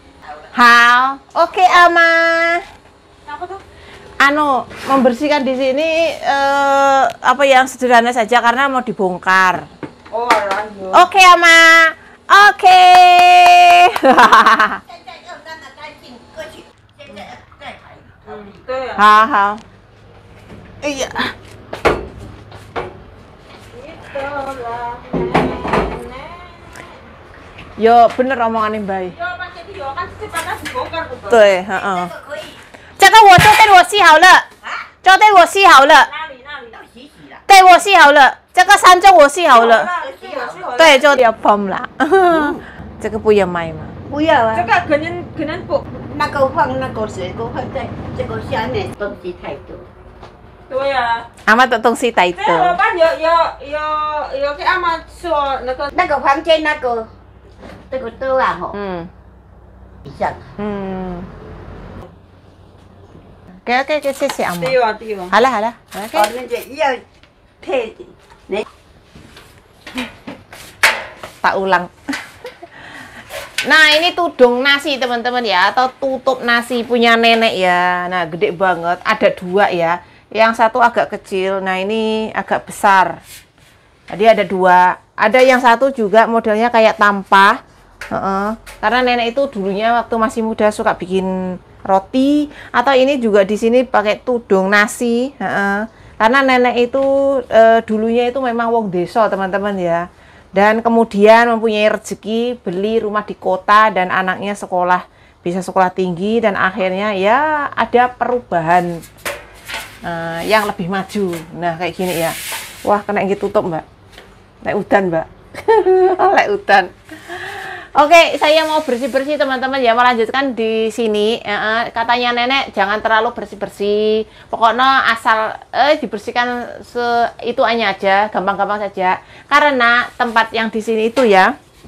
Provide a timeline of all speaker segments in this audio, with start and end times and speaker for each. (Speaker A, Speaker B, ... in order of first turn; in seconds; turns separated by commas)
Speaker A: 0.5-2.6, Speaker B: 3.2-3.6, Speaker A: 4.2-9.6, Speaker B: 10.1-11.1, Speaker A: 10.9-14.8, Speaker C: 14.9-18.6, Speaker B: 18.2-19.1, Speaker A: 19.0-19.6, Speaker A: 20.8-21.2, Speaker B: 23.7-26.9, Speaker A: 27.8-29.1, Speaker B: 29.1-31.6, Speaker A: 31.3-32.1, Speaker C: 31.7-32.6, Speaker A: 33.0-34.4, Speaker C: 34.6-34.9, Speaker A: 35.0-36.1, Speaker B: 35.9-36.8, Speaker C: 36.7-37.4, Speaker A: 37.5-39.9, Speaker B: 39.5-41.2, Speaker C: 39.9-40.7, Speaker A: 40.8-43.9, Speaker C: 42.3-42.6, Speaker C: 44.1-44.7, Speaker B: 44.5-45.8, Speaker C: 45.9-49.9, Speaker B: 50.7-51.3, Speaker A: 51.5-52.8, Speaker B: 52.4-55.9, Speaker C: 55.9-57.0, Speaker C: 57.9-58.7, Speaker A: 58.7-59.1, Speaker C: 60.1-60.4, Speaker A: 60.6-61.3, Speaker A: 63.6-64.8, Speaker B: 64.6-65.3, Speaker A: 65.3-66.3, Speaker C: 66.1-67.0, Speaker C: 67.6-68.6, Speaker A: 71.4-71.9, Speaker A: 73.7-83.2, Speaker A: 84.1-87.5, Speaker A: 88.1-100.0, Speaker A: 100.5-109.0, Speaker A: 110.0-113.8, Speaker A: 114.6-131.5